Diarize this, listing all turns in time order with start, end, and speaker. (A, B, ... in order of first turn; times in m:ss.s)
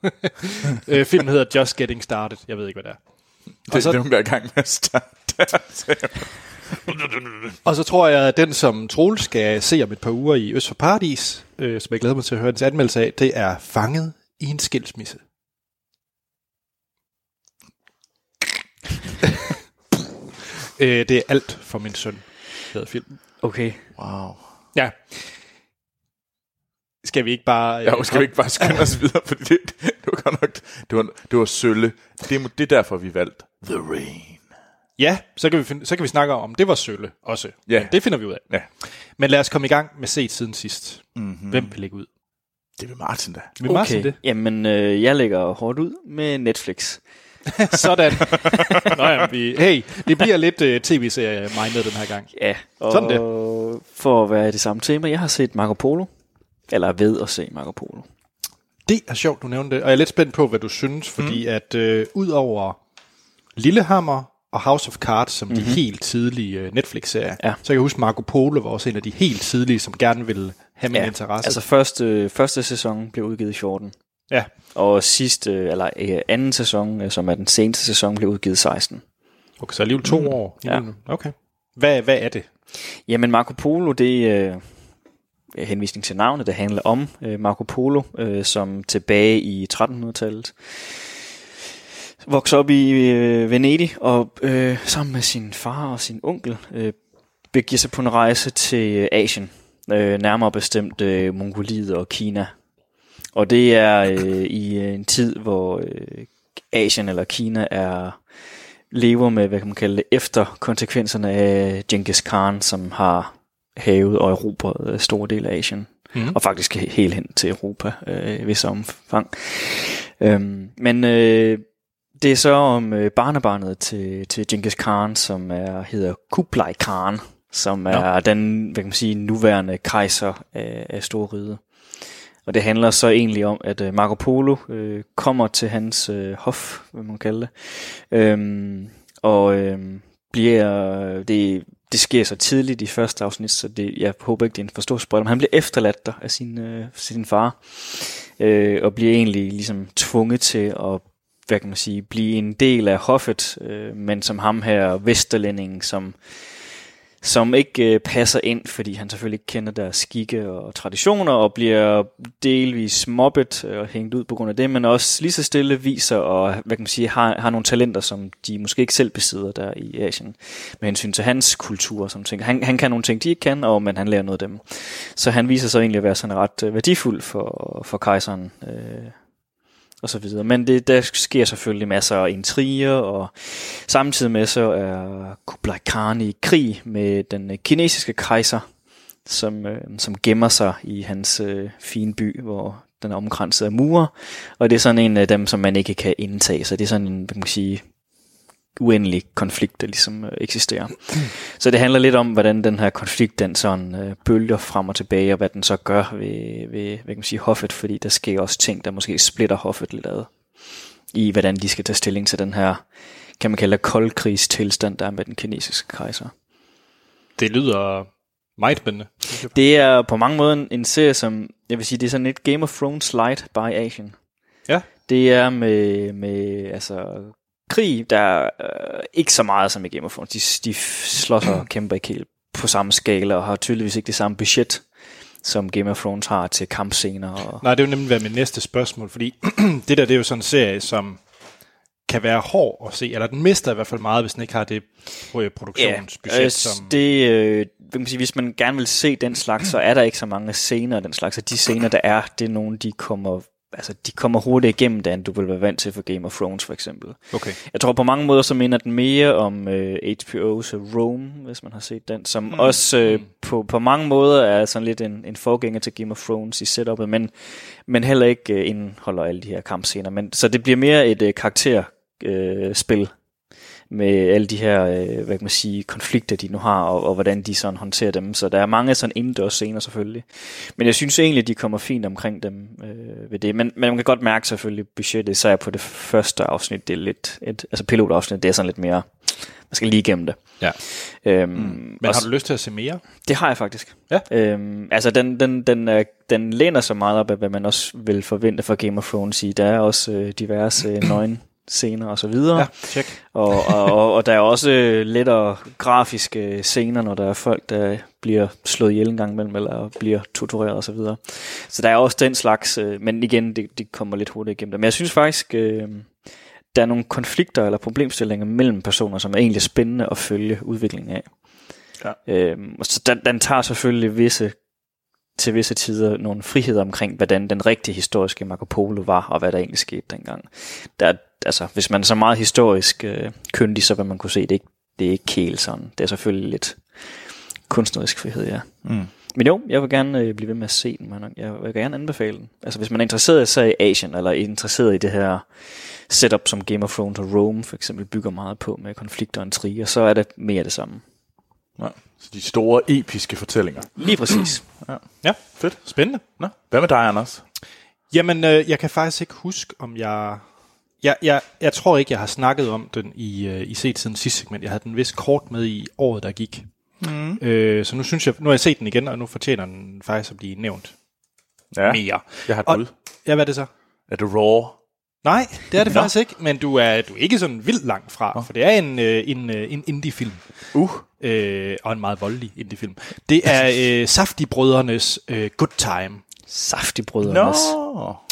0:00.2-0:03.0 A
0:03.7-0:04.0 A
0:03.7-0:07.6 B
0:07.6-0:15.2 A
0:20.6-0:23.2 A
0:23.4-0:23.8 C
0:24.0-0:24.4 B
0:24.8-0:25.3 A
0:27.0-0:29.0 A
0:27.8-0:34.4 B
0:35.0-0:38.4 A
0:39.2-0:42.1 A
0:41.2-0:41.7 B
0:42.8-0:43.6 B
0:43.6-0:44.2 A
0:43.6-0:47.0 C
0:47.5-0:52.3 A
0:48.4-0:48.9 C
0:52.3-0:56.1 C
0:52.9-0:53.2 A
0:56.7-0:58.1 C
0:58.9-1:02.8 A
1:03.6-1:11.6 A
1:05.5-1:05.8 C
1:10.9-1:13.9 C
1:14.7-1:19.0 C
1:19.6-1:22.5 A
1:23.1-1:24.6 C
1:25.5-1:31.0 C
1:32.2-1:37.0 C
1:37.5-1:42.5 C
1:43.3-1:48.2 C
1:48.9-2:01.6 C
2:02.2-2:11.6 C
2:12.5-2:36.2 C
2:37.2-2:59.2 C
3:00.0-3:08.6 C
3:09.2-3:17.8 C
3:18.8-3:30.3 C
3:31.1-3:32.8 C
3:33.4-3:36.3 C
3:37.4-3:39.6 A
3:39.5-3:44.2 C
3:45.1-3:54.8 C
3:55.4-3:57.6 C
3:57.6-4:01.2 A
4:02.1-4:07.0 A
4:05.8-4:33.1 C
4:17.3-4:17.6 A
4:33.9-4:52.3 C
4:52.0-4:53.0 A
4:53.2-5:16.1 C
5:02.6-5:03.8 A
5:16.7-5:21.3 C
5:22.3-5:24.6 C
5:25.4-5:36.8 C
5:37.7-5:38.7 C
5:38.8-5:39.1 B
5:39.3-5:51.0 C
5:51.8-5:54.0 B
5:54.0-5:54.6 C
5:55.2-5:56.2 A
5:55.5-5:55.8 B
5:56.4-5:57.4 B
5:58.1-6:00.4 A
6:01.0-6:06.7 A
6:07.0-6:07.4 B
6:07.4-6:10.9 A
6:11.7-6:12.9 B
6:11.8-6:13.7 A
6:14.1-6:14.8 B
6:15.2-6:20.4 A
6:15.9-6:16.1 B
6:20.7-6:21.1 B
6:21.2-6:26.2 A
6:26.5-6:27.8 C
6:27.2-6:28.2 B